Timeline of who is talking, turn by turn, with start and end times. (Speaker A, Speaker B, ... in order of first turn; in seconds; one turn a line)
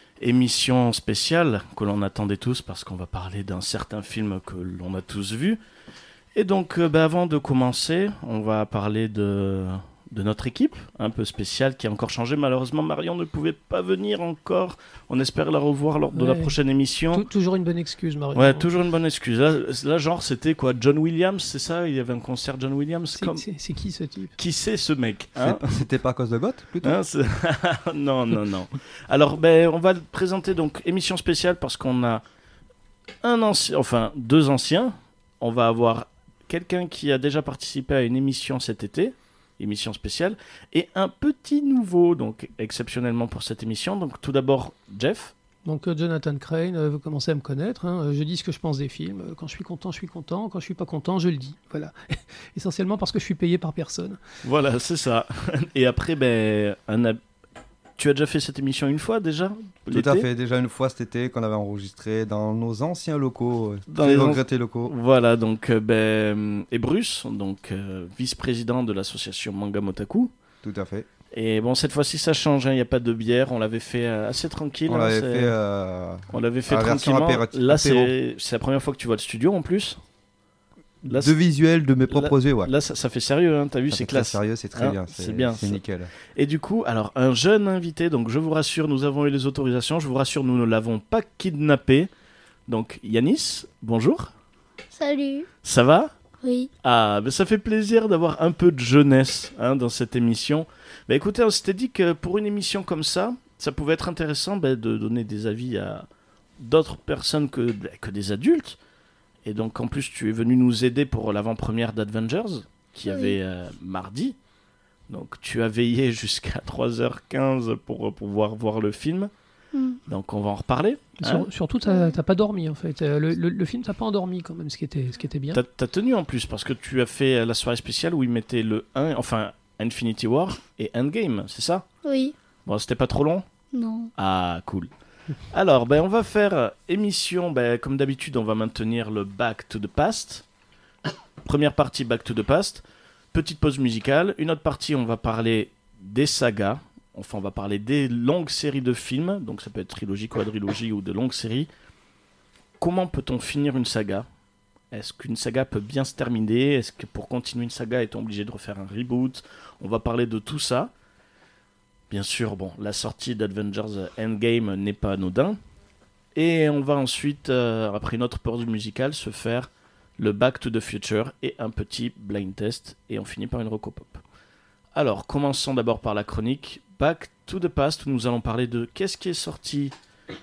Speaker A: 0.2-5.6
Speaker A: 6.3-17.3
Speaker B: 16.1-16.6
Speaker B: 17.1-18.7
Speaker A: 18.4-23.4
Speaker B: 23.1-24.4
Speaker A: 24.4-25.7
Speaker C: 25.4-27.0
Speaker A: 26.8-32.2
Speaker A: 33.2-45.3
Speaker B: 45.7-54.2
Speaker A: 54.4-57.2
Speaker A: 58.0-60.3
Speaker C: 59.9-64.9
Speaker A: 63.9-70.3
Speaker C: 70.6-71.1
Speaker A: 71.3-75.6
Speaker C: 74.9-78.1
Speaker A: 76.3-80.0
Speaker C: 81.0-82.7
Speaker A: 81.0-81.4
Speaker A: 82.1-85.8
Speaker C: 83.9-86.1
Speaker A: 86.3-92.1
Speaker A: 92.7-94.3
Speaker D: 94.9-95.5
Speaker A: 95.6-96.1
Speaker D: 96.4-96.7
Speaker A: 96.8-106.1
Speaker A: 106.6-108.8
Speaker A: 109.5-114.4
Speaker D: 113.0-113.4
Speaker A: 115.1-119.3
Speaker D: 119.7-120.0
Speaker A: 120.1-121.5
Speaker B: 121.2-125.6
Speaker D: 121.9-122.1
Speaker A: 125.5-131.8
Speaker D: 132.0-132.3
Speaker A: 132.7-133.5
Speaker D: 133.7-134.1
Speaker A: 134.2-134.9
Speaker A: 135.5-140.4
Speaker A: 141.4-142.8
Speaker A: 143.3-151.7
Speaker A: 152.8-154.3
Speaker A: 154.9-160.9
Speaker A: 162.1-165.6
Speaker A: 166.3-174.2
Speaker A: 174.9-179.9